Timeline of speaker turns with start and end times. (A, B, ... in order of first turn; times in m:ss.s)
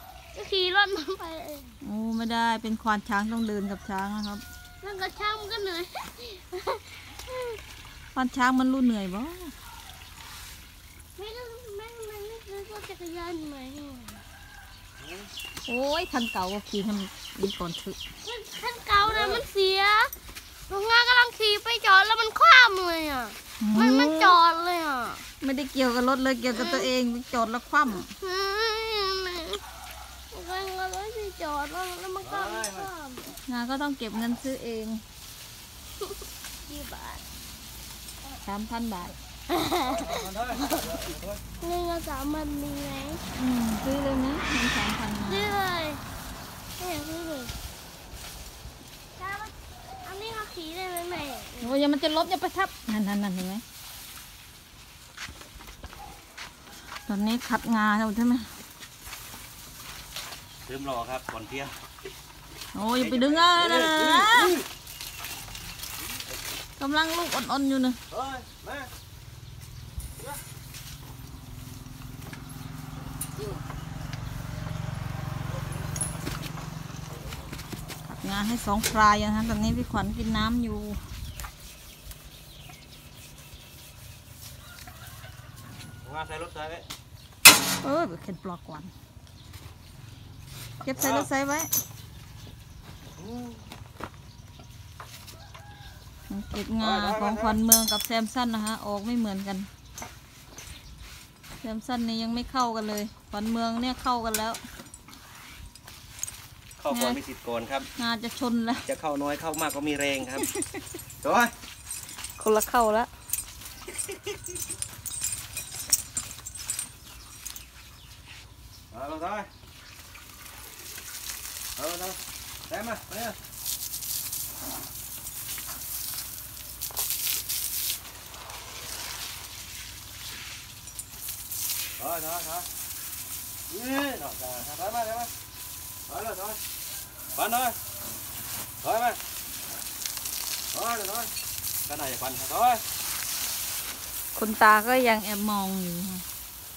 0:00.3-0:01.8 A
0:01.8-0:04.4 B
0:04.8-0:07.6 A
0:08.1-0:09.5 B
0:11.2-0:14.2 A
0:15.0-0:15.3 C
0:15.7-0:18.0 B
0:18.2-0:20.1 A
0:19.0-0:19.4 C
0:20.7-0:25.2 A
0:23.6-0:24.4 B
0:25.4-0:28.1 B
0:26.5-0:26.9 A
0:28.2-0:29.6 A
0:30.3-0:33.4 A
0:32.2-0:32.9 C
0:33.5-0:35.0 B
0:36.6-0:37.2 A
0:38.4-0:39.2 B
0:39.5-0:41.0 A
0:39.8-0:41.4 C
0:41.6-0:43.2 A
0:43.3-0:45.6 B
0:45.3-0:46.0 A
0:46.8-0:47.5 A
0:49.2-0:51.7 A
0:51.6-0:53.6 B
0:57.1-0:58.5 B
1:00.7-1:01.7 C
1:02.7-1:04.5 B
1:02.9-1:04.6 C
1:06.8-1:08.0 B
1:08.1-1:08.9 C
1:18.0-1:21.0 B
1:26.0-1:26.8 C
1:27.8-1:28.9 B
1:30.8-1:31.7 B
1:30.9-1:31.3 C
1:33.2-1:33.6 C
1:36.3-1:39.7 B
1:36.8-1:37.6 C
1:41.6-1:44.6 B
1:46.8-1:47.9 C
1:46.9-1:47.2 B
1:48.0-1:48.8 B
1:48.8-1:50.4 C
1:50.3-1:50.8 B
1:51.2-1:51.5 C
1:52.4-1:53.1 B
1:53.9-1:54.4 C
1:58.9-1:59.5 C
2:01.8-2:03.4 C
2:12.0-2:12.7 C
2:13.7-2:15.3 C
2:16.1-2:16.6 C
2:17.4-2:17.8 C
2:18.8-2:19.2 C
2:20.7-2:21.3 C
2:21.8-2:22.8 C
2:24.3-2:26.2 B